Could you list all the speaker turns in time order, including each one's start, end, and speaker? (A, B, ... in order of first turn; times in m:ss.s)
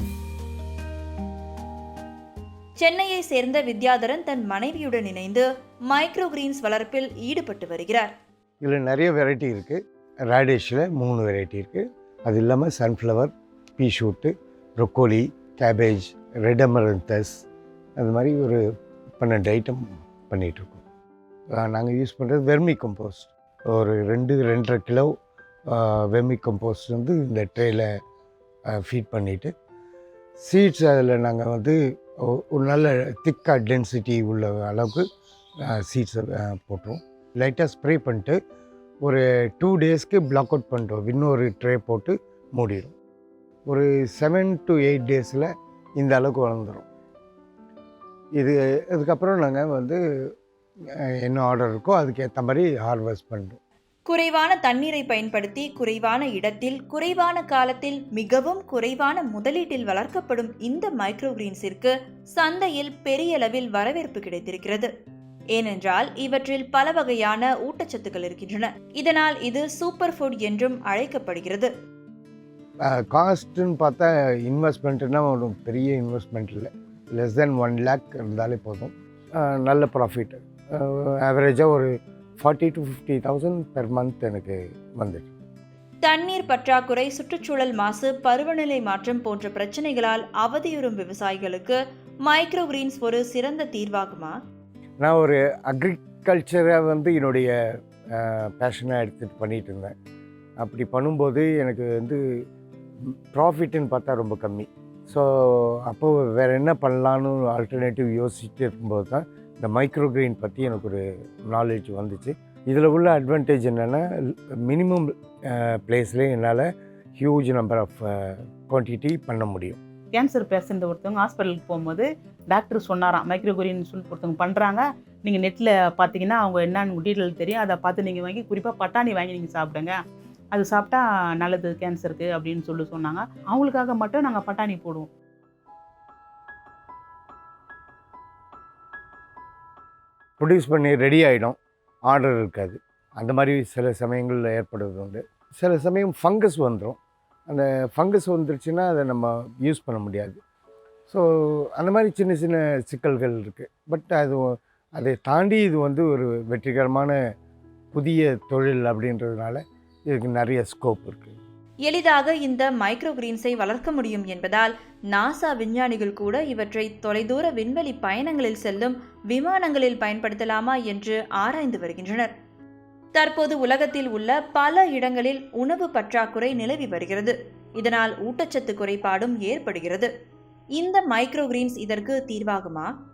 0:02.8-0:08.1 A
0:08.6-0:17.4 B
0:18.0-0:18.6 B
0:19.2-0:20.8 B
0:21.6-0:25.1 B
0:25.7-0:27.9 B
0:28.7-0:29.5 B
0:30.4-0:35.0 B
0:35.6-0:38.4 B
0:39.0-0:42.9 B
0:43.7-0:46.8 B
0:48.4-0:50.0 B
0:51.2-0:53.6 B
0:54.1-1:04.9 A
1:05.5-1:11.7 A
1:12.9-1:25.3 B
1:26.0-1:34.4 A
1:35.0-1:37.5 B
1:38.2-1:39.9 B
1:40.6-1:42.2 B
1:43.1-1:56.7 B
1:57.2-1:59.8 B
2:00.1-2:10.0 C
2:10.5-2:15.1 C
2:20.4-2:21.6 B
2:22.1-2:30.4 B
2:31.1-2:37.2 B
2:37.9-2:41.4 B
2:41.9-2:52.3 A
2:53.2-3:00.1 A
3:00.8-3:02.9 A